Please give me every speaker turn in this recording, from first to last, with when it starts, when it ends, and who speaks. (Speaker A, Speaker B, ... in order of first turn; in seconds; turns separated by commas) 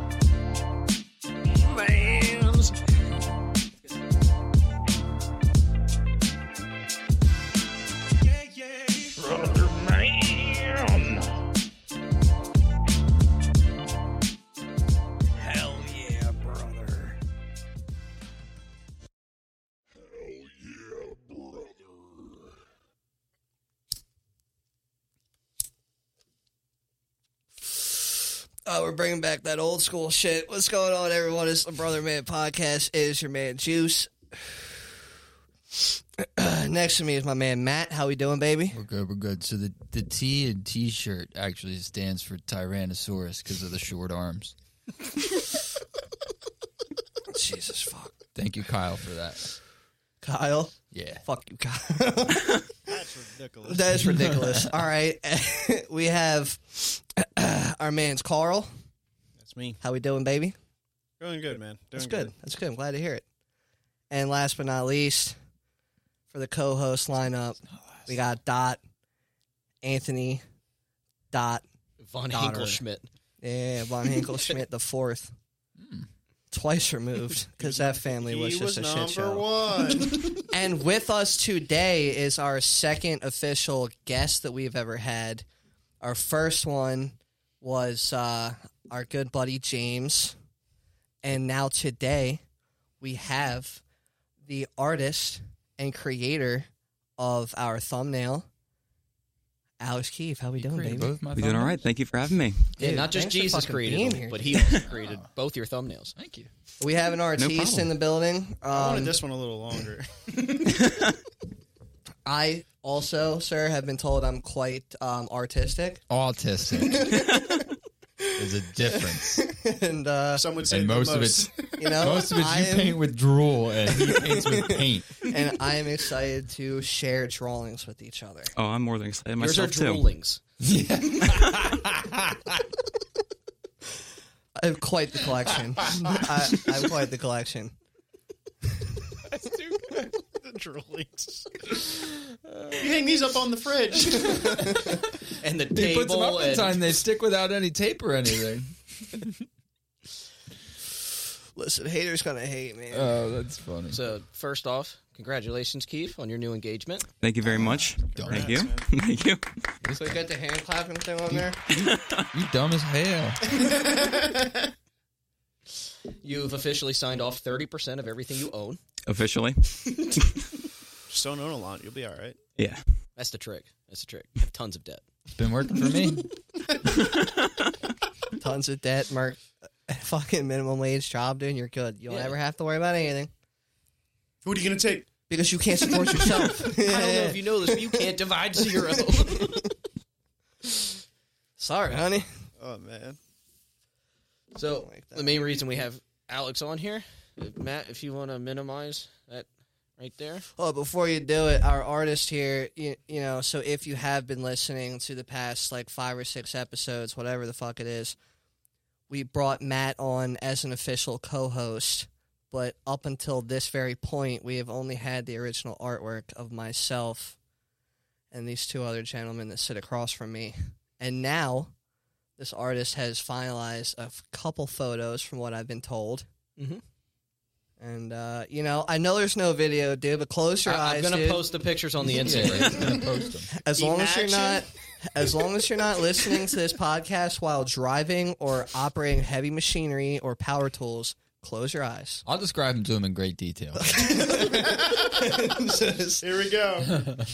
Speaker A: 1.7-2.3, Speaker B: 2.1-2.4, Speaker B: 8.7-11.2, Speaker B: 15.4-17.2, Speaker B: 20.4-20.6, Speaker C: 28.6-35.0, Speaker C: 35.7-38.8, Speaker D: 38.7-44.5, Speaker C: 47.3-48.1, Speaker D: 48.3-49.5, Speaker C: 50.2-52.8, Speaker D: 50.9-51.2, Speaker A: 52.9-54.0, Speaker C: 53.6-58.7, Speaker D: 54.1-54.7, Speaker A: 59.4-59.8, Speaker C: 59.8-60.5, Speaker A: 61.2-62.3, Speaker C: 61.9-63.2, Speaker C: 64.1-65.3, Speaker C: 66.3-68.8, Speaker C: 69.8-70.4, Speaker C: 71.3-71.7, Speaker E: 72.0-73.1, Speaker C: 72.3-72.8, Speaker C: 73.4-75.3, Speaker D: 75.8-76.1, Speaker C: 76.5-85.4, Speaker A: 77.6-80.4, Speaker C: 86.0-90.3, Speaker C: 91.2-92.4, Speaker C: 93.0-93.8, Speaker C: 94.4-98.5, Speaker C: 99.8-101.1, Speaker D: 100.5-101.9, Speaker F: 101.3-102.7, Speaker C: 102.8-104.8, Speaker E: 102.8-106.1, Speaker D: 104.9-105.2, Speaker D: 106.2-106.5, Speaker C: 106.8-109.2, Speaker F: 107.3-107.9, Speaker A: 108.7-110.1, Speaker C: 112.2-116.0, Speaker D: 116.1-117.2, Speaker C: 116.8-117.6, Speaker D: 118.3-119.5, Speaker C: 118.9-120.6, Speaker A: 120.3-121.8, Speaker D: 120.7-125.2, Speaker C: 121.8-123.0, Speaker C: 123.9-128.5, Speaker F: 128.5-130.0, Speaker E: 129.4-130.4, Speaker D: 130.6-132.6, Speaker C: 134.6-137.7, Speaker A: 139.4-141.9, Speaker A: 142.7-144.6, Speaker C: 144.1-145.0, Speaker D: 144.6-144.9, Speaker E: 145.4-146.9, Speaker D: 145.7-149.4, Speaker C: 151.6-153.1, Speaker D: 152.9-154.1, Speaker E: 153.9-157.1, Speaker F: 157.2-159.4, Speaker D: 157.6-158.6, Speaker A: 158.2-158.8, Speaker D: 159.8-160.2, Speaker C: 159.9-161.6, Speaker D: 161.3-163.5, Speaker F: 161.7-162.3, Speaker A: 163.4-164.7, Speaker E: 166.2-168.8, Speaker F: 169.1-170.3, Speaker A: 171.1-172.4, Speaker F: 172.6-172.8, Speaker E: 173.2-175.0, Speaker D: 175.3-176.3, Speaker C: 178.3-183.3, Speaker E: 182.1-182.3, Speaker A: 184.4-185.1, Speaker C: 185.3-189.7, Speaker E: 186.6-189.7, Speaker C: 191.6-192.3, Speaker A: 192.6-193.2, Speaker E: 194.5-200.4, Speaker C: 194.8-195.4, Speaker C: 200.6-208.2, Speaker C: 209.1-217.3, Speaker C: 218.3-221.7, Speaker C: 222.4-226.2, Speaker E: 226.6-226.8, Speaker C: 227.8-231.6, Speaker E: 230.6-233.0, Speaker D: 232.1-233.5, Speaker C: 233.5-242.2, Speaker A: 233.8-234.7, Speaker D: 242.2-244.1, Speaker C: 243.8-246.2, Speaker A: 244.7-245.0, Speaker A: 246.2-247.1